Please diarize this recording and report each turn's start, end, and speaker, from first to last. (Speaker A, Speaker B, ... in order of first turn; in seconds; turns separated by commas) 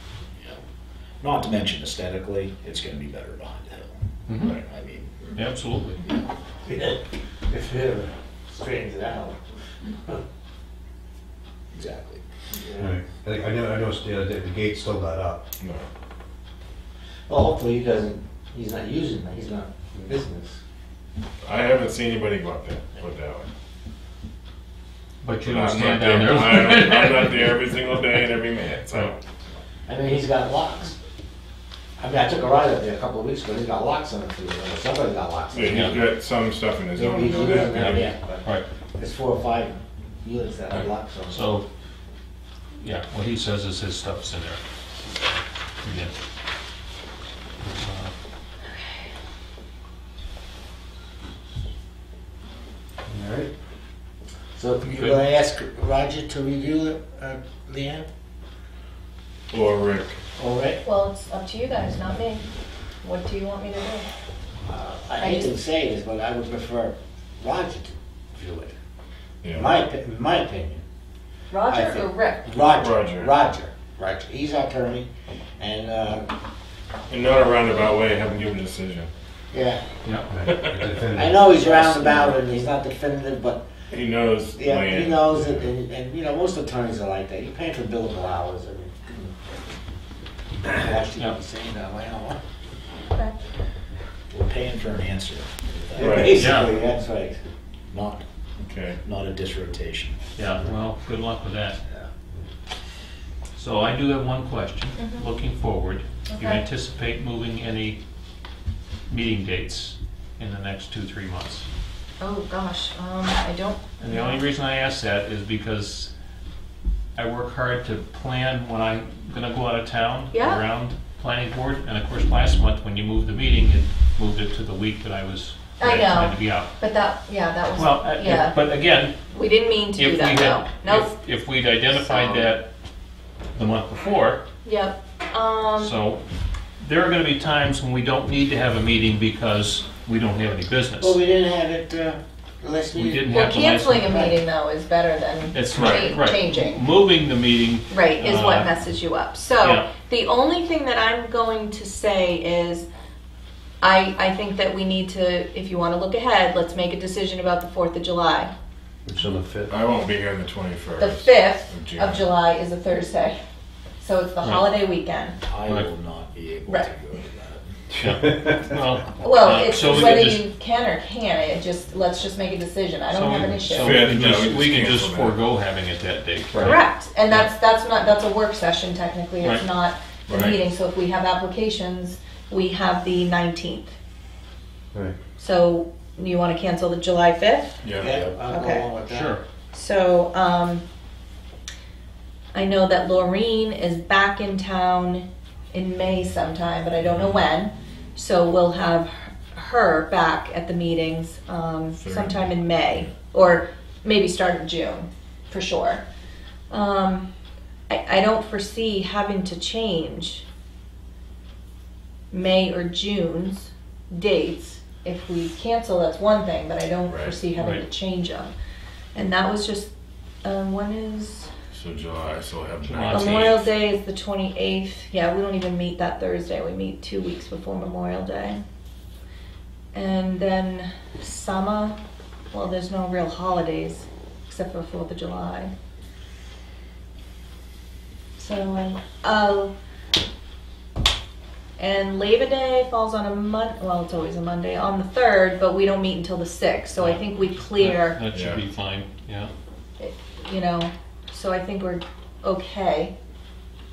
Speaker A: 1.2-5.3, Speaker B: 4.3-4.5, Speaker B: 5.3-6.0, Speaker C: 6.6-9.4, Speaker A: 11.7-12.2, Speaker C: 12.6-12.9, Speaker D: 12.8-15.4, Speaker E: 15.6-15.8, Speaker C: 17.3-20.6, Speaker E: 21.4-23.5, Speaker B: 25.2-27.5, Speaker E: 25.4-29.2, Speaker C: 29.9-31.0, Speaker C: 32.0-36.1, Speaker E: 35.5-38.1, Speaker B: 35.6-35.9, Speaker C: 36.9-41.4, Speaker B: 37.6-38.6, Speaker B: 41.3-41.7, Speaker B: 42.8-44.6, Speaker B: 45.8-46.1, Speaker B: 47.8-48.1, Speaker D: 53.1-53.5, Speaker C: 54.5-58.1, Speaker B: 54.9-55.2, Speaker E: 59.5-60.2, Speaker C: 60.4-60.8, Speaker F: 60.8-62.5, Speaker F: 63.0-64.1, Speaker C: 64.7-68.7, Speaker F: 65.2-65.5, Speaker E: 69.4-69.7, Speaker C: 69.5-70.8, Speaker F: 71.5-72.5, Speaker C: 71.7-76.3, Speaker E: 72.8-73.3, Speaker E: 77.1-79.1, Speaker C: 79.5-79.8, Speaker D: 80.3-82.3, Speaker E: 80.5-80.8, Speaker C: 81.2-83.6, Speaker E: 83.9-85.7, Speaker C: 84.6-89.3, Speaker C: 90.7-92.4, Speaker F: 93.1-93.4, Speaker A: 94.3-96.5, Speaker C: 95.9-97.4, Speaker E: 96.0-96.3, Speaker B: 96.4-96.7, Speaker A: 97.9-98.2, Speaker E: 98.6-99.0, Speaker A: 99.0-100.2, Speaker B: 100.4-101.8, Speaker B: 103.5-108.0, Speaker F: 105.0-105.3, Speaker F: 106.3-106.6, Speaker B: 109.1-111.7, Speaker F: 112.2-114.5, Speaker B: 114.0-116.1, Speaker B: 117.1-126.7, Speaker F: 120.3-120.7, Speaker F: 125.8-131.2, Speaker B: 127.8-129.2, Speaker B: 129.9-132.7, Speaker F: 132.0-132.5, Speaker B: 133.5-134.4, Speaker F: 134.6-136.0, Speaker B: 135.8-136.2, Speaker B: 136.8-141.2, Speaker C: 141.0-143.4, Speaker B: 142.9-144.2, Speaker F: 143.3-146.8, Speaker C: 144.0-144.4, Speaker B: 145.5-148.7, Speaker E: 145.7-146.1, Speaker F: 147.9-152.9, Speaker B: 149.6-149.9, Speaker F: 153.8-158.5, Speaker D: 159.1-159.7, Speaker E: 159.7-162.3, Speaker F: 161.0-163.5, Speaker F: 164.0-165.4, Speaker A: 165.5-167.6, Speaker F: 166.6-166.9, Speaker B: 167.9-170.4, Speaker F: 169.2-174.0, Speaker B: 173.1-177.5, Speaker E: 173.7-175.4, Speaker F: 176.6-183.9, Speaker E: 180.3-180.6, Speaker F: 185.4-187.8, Speaker E: 187.8-188.2, Speaker C: 187.9-189.4, Speaker F: 188.5-188.9, Speaker B: 189.1-189.4, Speaker F: 189.7-190.8, Speaker F: 192.5-206.0, Speaker E: 202.0-203.1, Speaker F: 206.7-207.3, Speaker F: 207.9-210.4, Speaker F: 212.3-218.5, Speaker E: 217.1-217.4, Speaker B: 217.6-217.8, Speaker F: 219.1-219.9, Speaker F: 220.4-221.5, Speaker E: 221.7-223.7, Speaker B: 222.8-223.6, Speaker F: 223.1-228.6, Speaker F: 229.9-232.0, Speaker F: 232.5-235.7, Speaker F: 238.4-239.7, Speaker F: 241.8-248.2, Speaker B: 247.0-249.5, Speaker E: 248.3-248.6, Speaker F: 250.0-253.1